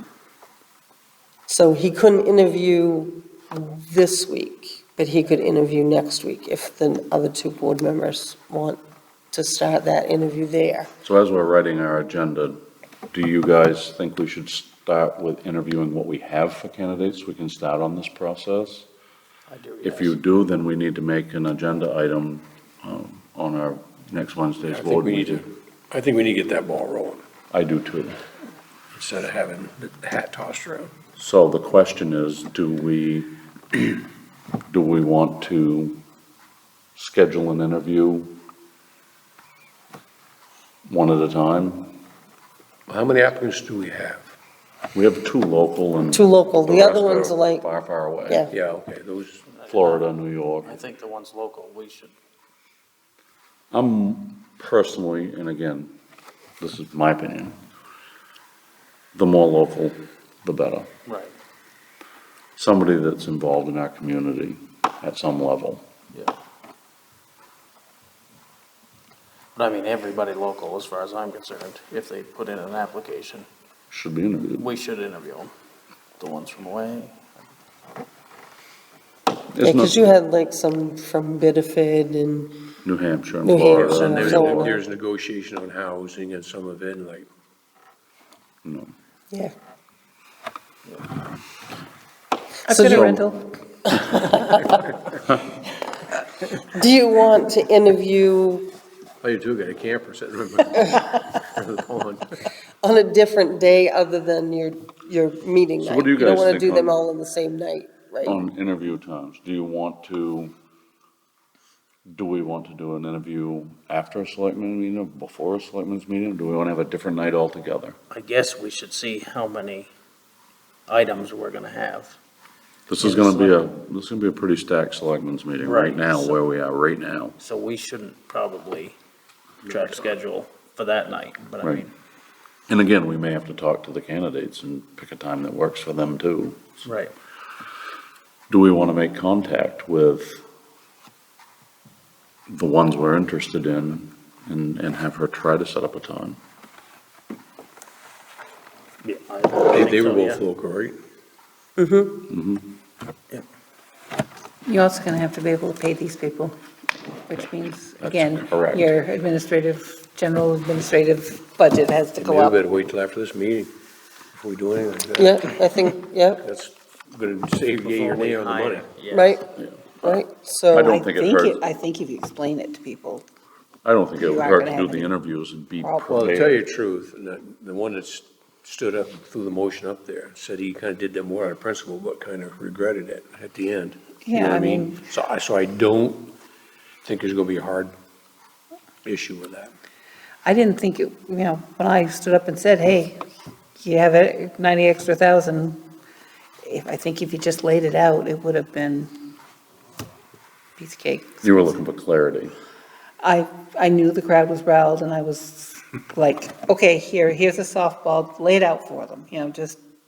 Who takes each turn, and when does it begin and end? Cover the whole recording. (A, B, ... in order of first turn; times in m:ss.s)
0:01.5-0:08.8 A
0:09.3-0:10.9 A
0:11.0-0:18.9 B
0:19.5-0:20.2 C
0:19.8-0:25.5 B
0:24.7-0:27.2 D
0:27.5-0:28.2 B
0:28.9-0:30.9 D
0:31.2-0:33.9 B
0:34.7-0:36.0 B
0:37.0-0:38.4 B
0:40.9-0:42.0 B
0:42.9-0:44.3 D
0:44.9-0:48.5 B
0:46.1-0:47.6 A
0:48.5-0:49.4 D
0:49.5-0:50.0 C
0:49.7-0:50.8 B
0:50.6-0:52.1 C
0:53.7-0:55.9 B
0:56.6-0:57.6 B
0:59.1-1:00.9 B
1:01.0-1:01.3 C
1:02.6-1:05.8 B
1:09.5-1:13.5 C
1:13.9-1:14.7 B
1:14.6-1:15.5 C
1:16.2-1:17.2 C
1:19.5-1:20.1 B
1:19.6-1:22.5 A
1:22.8-1:24.8 B
1:23.4-1:24.8 A
1:23.7-1:27.3 D
1:28.6-1:28.9 B
1:32.6-1:33.5 E
1:32.7-1:33.2 A
1:32.9-1:33.2 B
1:33.9-1:34.7 A
1:34.6-1:35.1 D
1:36.6-1:38.7 A
1:39.2-1:42.4 D
1:40.8-1:41.1 A
1:42.8-1:48.4 A
1:45.8-1:47.0 B
1:48.2-1:50.5 B
1:52.1-1:58.0 B
1:58.1-1:59.9 C
2:00.9-2:02.2 C
2:02.9-2:07.4 B
2:03.0-2:03.6 C
2:05.6-2:06.4 C
2:07.4-2:09.0 C
2:09.6-2:11.9 C
2:11.6-2:11.9 B
2:12.7-2:16.8 B
2:16.8-2:17.1 C
2:18.5-2:20.4 B
2:22.5-2:26.4 B
2:29.0-2:30.4 C
2:29.6-2:31.0 D
2:31.8-2:32.2 A
2:32.3-2:32.7 B
2:34.6-2:36.6 E
2:37.3-2:42.6 E
2:38.0-2:38.9 B
2:42.2-2:43.7 D
2:44.3-2:45.6 D
2:45.2-2:46.4 A
2:46.4-2:48.9 D
2:47.7-2:49.4 C
2:49.1-2:49.5 A
2:49.6-2:51.6 B
2:50.0-2:51.0 A
2:50.8-2:53.2 E
2:53.8-2:56.6 B
2:54.2-2:55.1 E
2:55.8-2:56.2 E
2:56.1-3:06.3 D
3:04.2-3:05.0 E
3:07.0-3:07.9 D
3:09.0-3:09.7 D
3:10.4-3:13.2 E
3:13.8-3:15.8 E
3:16.6-3:19.1 E
3:20.8-3:21.7 E
3:21.4-3:22.5 B
3:23.2-3:29.8 E